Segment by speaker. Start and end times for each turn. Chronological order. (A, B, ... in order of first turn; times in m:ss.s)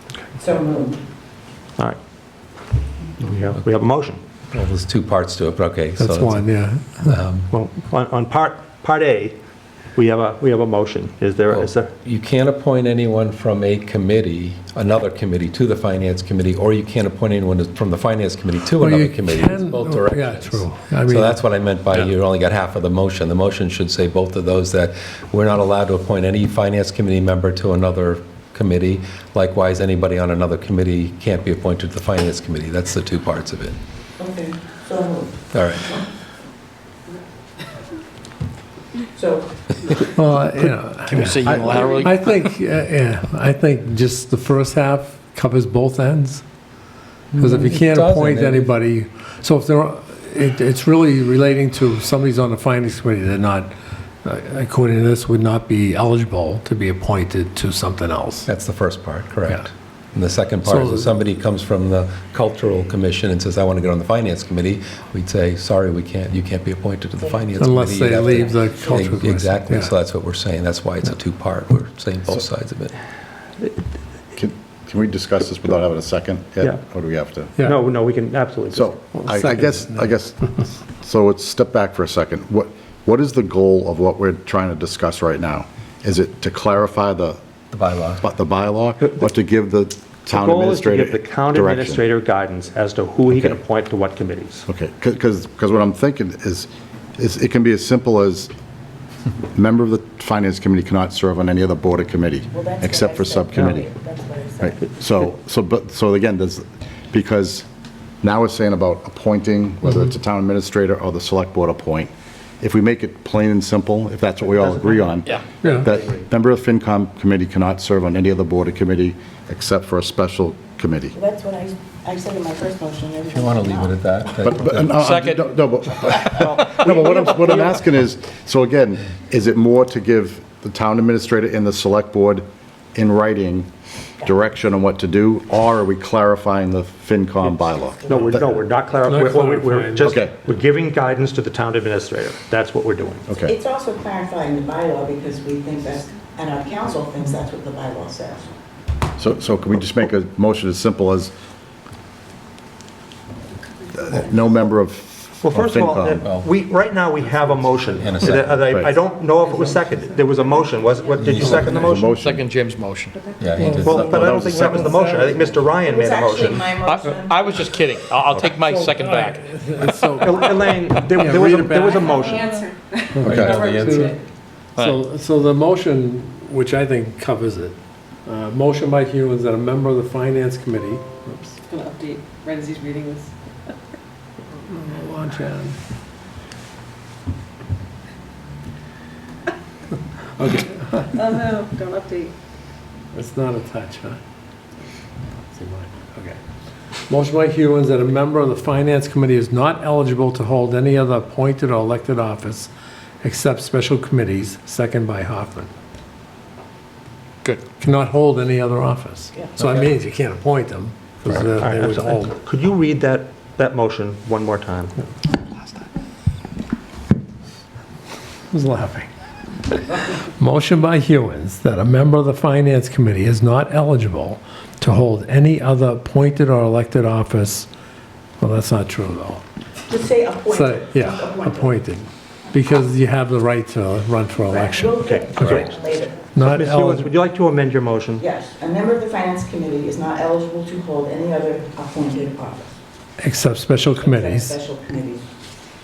0:00.4-0:01.0 A
0:03.2-0:04.2 B
0:04.5-0:06.5 C
0:06.0-0:07.2 D
0:07.0-0:07.5 C
0:07.5-0:09.4 B
0:10.0-0:11.9 B
0:11.5-0:33.8 C
0:18.8-0:21.4 D
0:34.2-0:35.3 A
0:35.5-0:36.0 C
0:39.2-0:39.5 A
0:40.1-0:46.4 D
0:41.1-0:42.5 E
0:47.3-0:48.7 C
0:47.4-0:53.7 D
0:54.2-0:58.5 D
0:58.5-1:12.9 C
1:00.7-1:01.1 D
1:07.6-1:09.9 D
1:08.2-1:09.0 A
1:14.3-1:17.5 F
1:17.6-1:19.0 B
1:18.7-1:27.4 F
1:19.2-1:20.1 D
1:27.7-1:28.2 C
1:28.2-1:32.0 F
1:30.3-1:34.7 B
1:33.3-1:33.6 F
1:34.7-1:38.5 F
1:39.5-1:43.9 F
1:42.5-1:44.8 A
1:44.6-1:47.7 F
1:48.2-2:01.1 F
1:55.6-1:55.9 D
1:55.7-1:56.3 B
2:01.1-2:04.0 A
2:03.3-2:05.0 C
2:04.4-2:13.7 F
2:04.9-2:07.1 E
2:06.3-2:07.8 B
2:14.2-2:18.5 F
2:18.0-2:18.6 A
2:18.1-2:23.3 B
2:19.1-2:20.2 D
2:20.0-2:20.3 F
2:23.4-2:28.5 A
2:29.2-2:31.3 F
2:33.9-2:36.2 F
2:35.4-2:42.2 B
2:36.2-2:36.5 C
2:37.5-2:38.9 C
2:38.7-2:39.0 F
2:41.0-2:41.4 G
2:41.2-2:41.8 C
2:41.4-2:41.9 D
2:41.8-2:42.4 F
2:42.1-2:43.2 E
2:43.2-2:43.4 G
2:43.4-2:44.8 C
2:43.6-2:43.9 D
2:43.8-2:45.1 F
2:43.8-2:46.8 B
2:44.8-2:45.3 D
2:45.8-2:47.8 A
2:46.4-2:50.2 E
2:48.6-2:52.2 D
2:50.2-2:52.6 B
2:50.9-2:51.3 E
2:52.0-2:54.2 G
2:53.1-2:54.2 D
2:53.2-2:54.1 C
2:53.2-2:53.7 F
2:54.8-2:55.0 E
2:54.8-3:01.6 D
3:01.7-3:03.3 G
3:04.6-3:05.8 D
3:10.4-3:11.1 D
3:11.1-3:12.3 G
3:13.1-3:14.2 D
3:15.5-3:16.4 D
3:17.1-3:22.7 D
3:23.2-3:25.7 D
3:27.8-3:32.3 D
3:31.3-3:34.9 B
3:38.5-3:39.1 D
3:39.9-3:47.7 D
3:48.4-3:49.4 D
3:49.9-3:51.8 A
3:50.5-3:55.6 D
3:54.5-3:56.3 A
3:55.0-3:55.7 B
3:56.3-3:57.1 D
3:56.4-3:58.2 B
3:58.2-4:02.7 A
4:03.2-4:04.6 D
4:03.9-4:05.2 A